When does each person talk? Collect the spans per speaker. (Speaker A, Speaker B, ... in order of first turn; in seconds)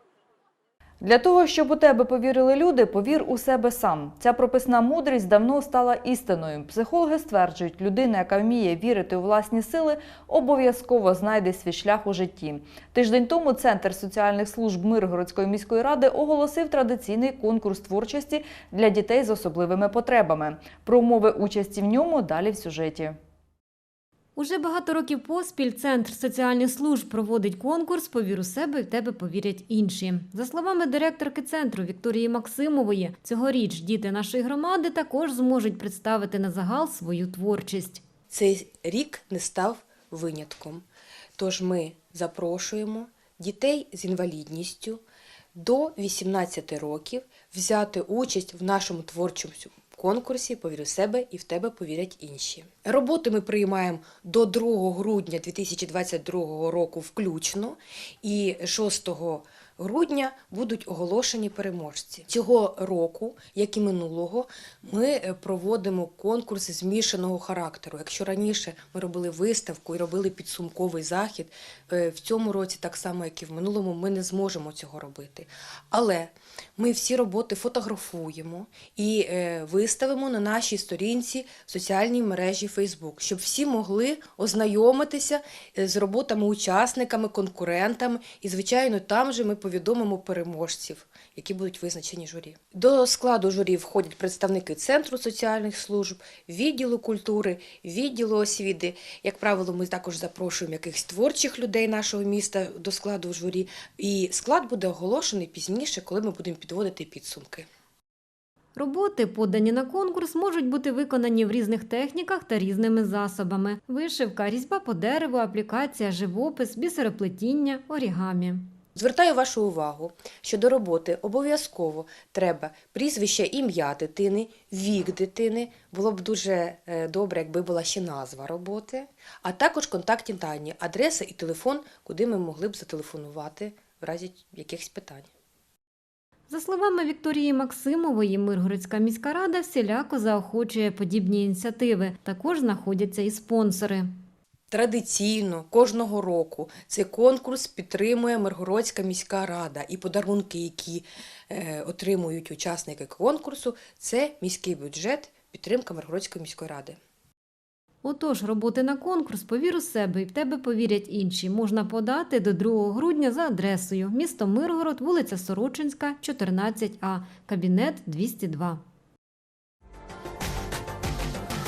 Speaker A: 1.0-23.2
Speaker B: 24.4-38.0, 108.7-118.7, 136.5-144.1, 158.0-168.8
Speaker C: 38.3-40.8, 41.4-45.0, 45.5-107.7, 119.0-135.3, 144.7-157.0